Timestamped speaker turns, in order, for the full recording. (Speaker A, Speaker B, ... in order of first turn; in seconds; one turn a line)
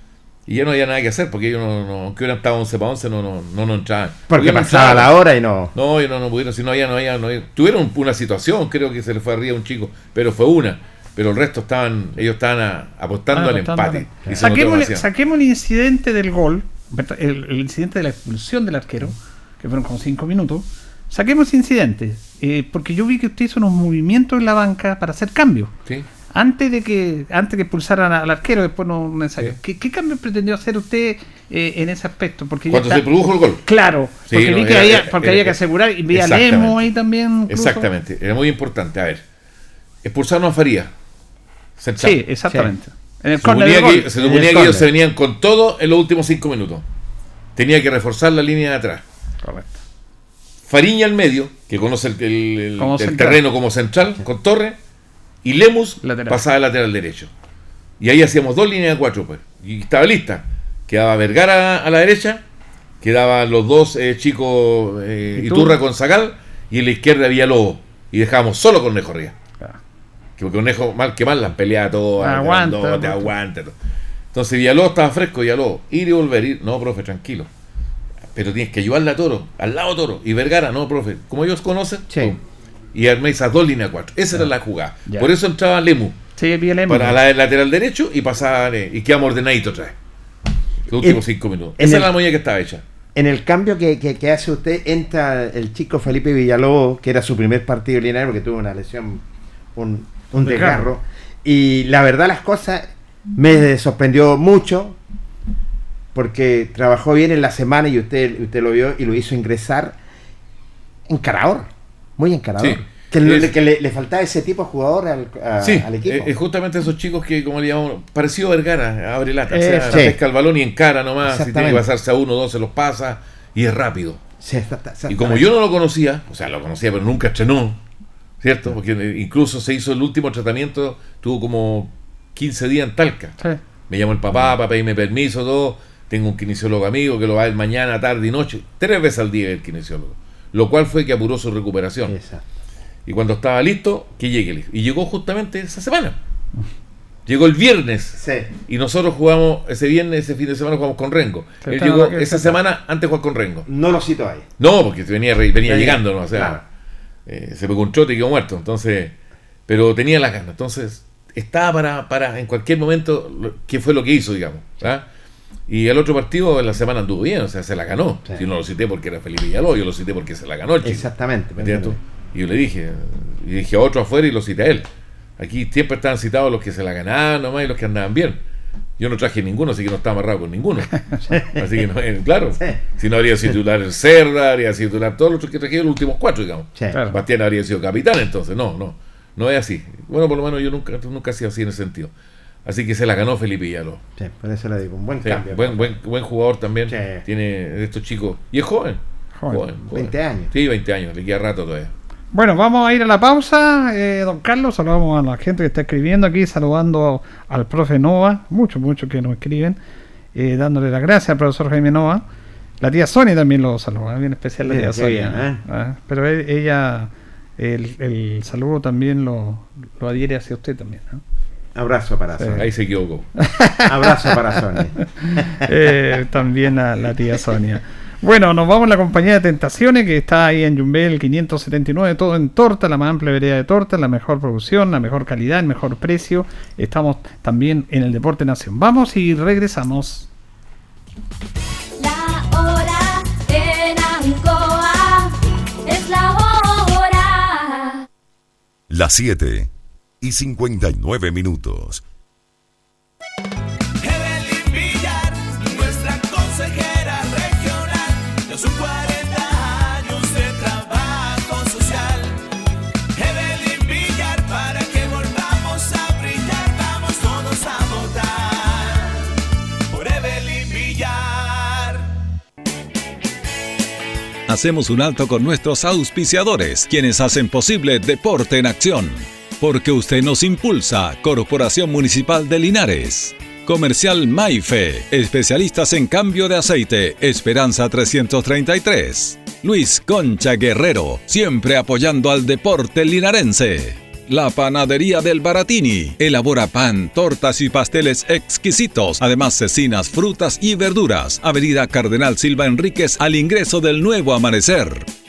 Speaker A: 0.5-5.2
Speaker B: 4.3-5.7
Speaker A: 5.7-15.0
Speaker C: 13.3-25.7
Speaker C: 26.3-33.0
Speaker A: 32.7-33.6
Speaker C: 33.6-37.9
Speaker A: 34.3-35.6
Speaker A: 36.1-36.9
Speaker A: 37.5-39.2
Speaker A: 40.0-40.9
Speaker A: 41.8-42.2
Speaker C: 42.0-44.1
Speaker A: 43.4-46.8
Speaker B: 44.1-44.9
Speaker A: 47.5-49.0
Speaker C: 49.4-49.8
Speaker A: 50.7-54.8
Speaker C: 52.8-53.4
Speaker A: 55.4-57.3
Speaker C: 56.0-56.4
Speaker A: 58.0-62.4
Speaker A: 63.0-69.3
Speaker C: 65.3-65.8
Speaker A: 70.4-73.7
Speaker C: 72.2-73.3
Speaker A: 74.3-77.5
Speaker A: 78.3-82.4
Speaker A: 82.9-86.2
Speaker C: 86.4-87.2
Speaker A: 86.9-89.9
Speaker A: 90.9-92.8
Speaker B: 91.8-92.1
Speaker B: 93.1-99.2
Speaker B: 99.7-105.0
Speaker C: 100.4-100.9
Speaker B: 106.1-110.0
Speaker B: 111.1-116.3
Speaker A: 112.6-113.5
Speaker A: 115.6-124.2
Speaker C: 119.5-120.1
Speaker B: 119.8-120.2
Speaker B: 121.2-121.8
Speaker B: 124.4-125.5
Speaker A: 125.1-127.8
Speaker A: 128.4-133.3
Speaker A: 133.9-142.1
Speaker B: 142.1-142.4
Speaker A: 143.1-146.2
Speaker A: 147.3-153.7
Speaker B: 148.2-148.5
Speaker C: 151.6-152.5
Speaker B: 153.7-154.4
Speaker A: 154.6-156.6
Speaker B: 155.6-156.6
Speaker A: 157.2-159.1
Speaker A: 159.7-165.1
Speaker A: 165.7-174.8
Speaker B: 170.8-172.0
Speaker A: 175.4-178.4
Speaker A: 179.0-192.1
Speaker B: 181.3-181.7
Speaker C: 186.9-187.2
Speaker A: 192.6-194.0
Speaker B: 194.2-195.9
Speaker A: 195.2-201.9
Speaker B: 196.9-197.2
Speaker B: 199.9-200.5
Speaker C: 202.3-209.8
Speaker C: 210.3-212.2
Speaker C: 212.8-221.2
Speaker B: 214.7-215.6
Speaker B: 221.7-222.7
Speaker A: 222.6-223.3
Speaker C: 223.4-224.3
Speaker B: 223.8-225.7
Speaker C: 225.0-240.3
Speaker D: 242.0-245.3
Speaker D: 245.8-248.1
Speaker E: 248.9-252.0
Speaker F: 254.0-262.3
Speaker F: 263.2-268.3
Speaker F: 269.9-271.8
Speaker G: 274.5-305.1